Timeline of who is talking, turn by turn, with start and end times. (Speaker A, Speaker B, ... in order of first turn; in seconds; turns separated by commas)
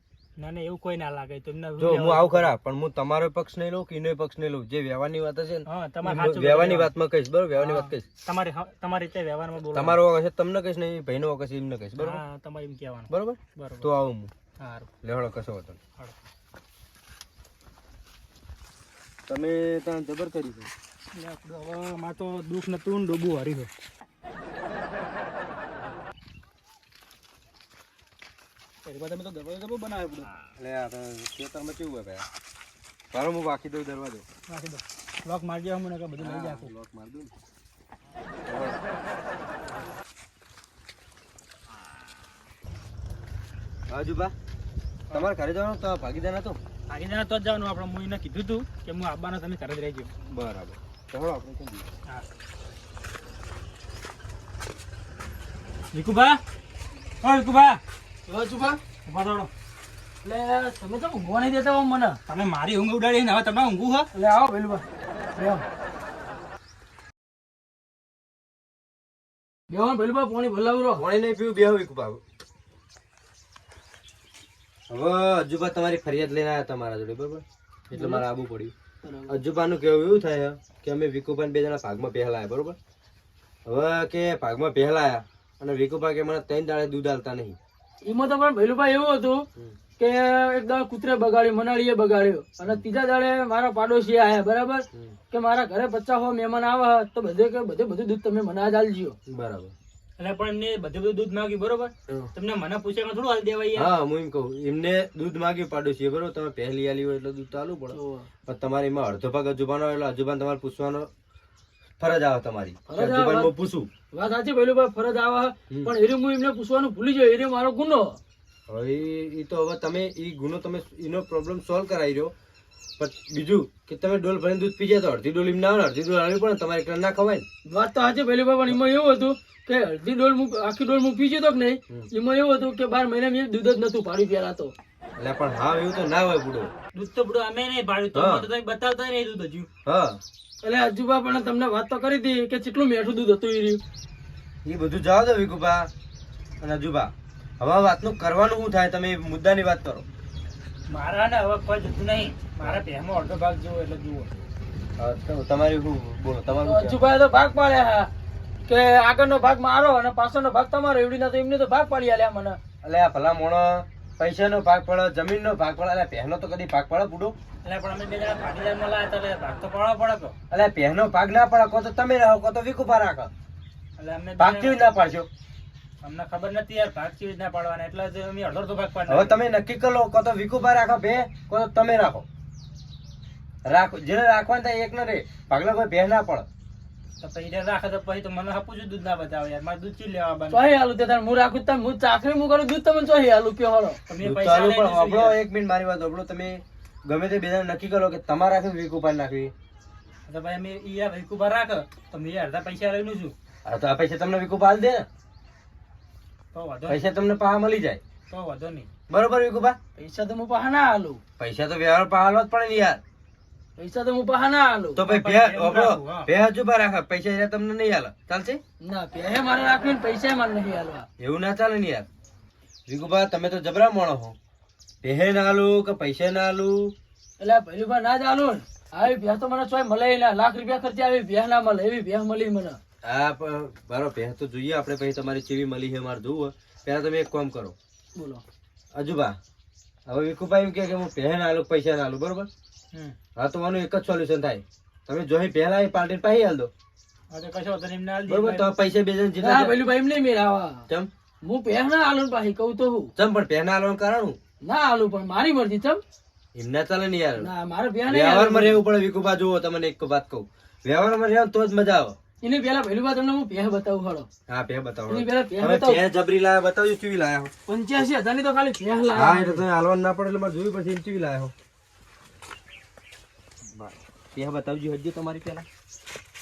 Speaker A: 0.4-2.5, Speaker B: 1.8-8.1, Speaker A: 5.7-6.9, Speaker A: 7.6-10.0, Speaker B: 9.7-12.2, Speaker A: 12.0-13.9, Speaker B: 13.1-14.3, Speaker A: 14.6-14.9, Speaker B: 15.0-15.8, Speaker B: 19.3-20.7, Speaker A: 21.1-23.7, Speaker A: 28.9-30.3, Speaker B: 30.6-32.3, Speaker B: 33.1-34.2, Speaker A: 34.5-36.7, Speaker B: 36.2-37.3, Speaker B: 38.5-38.8, Speaker B: 43.9-44.3, Speaker B: 45.1-46.6, Speaker A: 46.9-50.1, Speaker B: 50.3-51.9, Speaker A: 55.9-56.4, Speaker A: 57.2-57.8, Speaker C: 58.3-58.8, Speaker A: 59.1-59.5, Speaker C: 60.2-62.2, Speaker A: 62.3-64.1, Speaker C: 64.1-64.8, Speaker C: 65.4-65.6, Speaker C: 69.7-71.0, Speaker B: 71.0-72.2, Speaker B: 74.9-78.7, Speaker C: 77.9-78.2, Speaker C: 79.0-79.4, Speaker B: 79.3-82.8, Speaker B: 83.7-87.6, Speaker C: 88.0-89.5, Speaker C: 90.0-99.2, Speaker B: 99.3-99.7, Speaker A: 100.2-103.9, Speaker B: 103.8-108.0, Speaker C: 107.9-108.3, Speaker B: 108.5-111.1, Speaker B: 112.0-113.9, Speaker C: 112.9-113.5, Speaker C: 114.1-118.2, Speaker B: 118.7-122.3, Speaker B: 123.0-127.5, Speaker C: 127.7-134.8, Speaker B: 135.2-136.7, Speaker A: 136.9-139.7, Speaker B: 138.1-138.5, Speaker B: 139.9-140.2, Speaker C: 140.6-143.8, Speaker B: 144.7-145.9, Speaker B: 146.6-150.1, Speaker A: 150.9-154.3, Speaker B: 155.0-157.0, Speaker C: 156.6-158.1, Speaker C: 158.7-162.6, Speaker B: 162.8-167.4, Speaker A: 167.7-170.3, Speaker B: 170.5-173.3, Speaker A: 174.0-174.8, Speaker B: 174.4-175.3, Speaker A: 176.0-179.4, Speaker B: 179.1-182.3, Speaker B: 183.7-186.5, Speaker A: 187.2-190.7, Speaker C: 190.5-194.0, Speaker A: 194.1-195.4, Speaker B: 194.2-199.5, Speaker A: 200.3-203.3, Speaker B: 203.7-205.1, Speaker A: 206.5-207.0, Speaker B: 206.9-208.0, Speaker A: 208.3-208.9, Speaker B: 209.1-209.8, Speaker C: 209.9-211.2, Speaker B: 211.4-213.0, Speaker C: 213.8-215.0, Speaker B: 215.0-218.6, Speaker A: 215.0-216.3, Speaker C: 218.8-221.1, Speaker B: 221.2-222.1, Speaker B: 222.9-224.4, Speaker B: 225.0-226.9, Speaker C: 227.4-232.8, Speaker B: 233.1-237.8, Speaker C: 238.2-238.4, Speaker B: 238.9-239.4, Speaker B: 240.1-242.5, Speaker B: 243.4-246.7, Speaker A: 247.3-248.7, Speaker B: 248.3-249.8, Speaker C: 249.4-250.9, Speaker C: 251.4-253.1, Speaker B: 253.2-254.4, Speaker C: 254.6-256.0, Speaker B: 256.6-257.5, Speaker C: 257.4-258.9, Speaker B: 258.1-262.2, Speaker C: 262.4-264.3, Speaker B: 264.5-267.5, Speaker C: 265.1-266.0, Speaker C: 267.7-269.6, Speaker B: 269.1-271.5, Speaker B: 273.7-275.7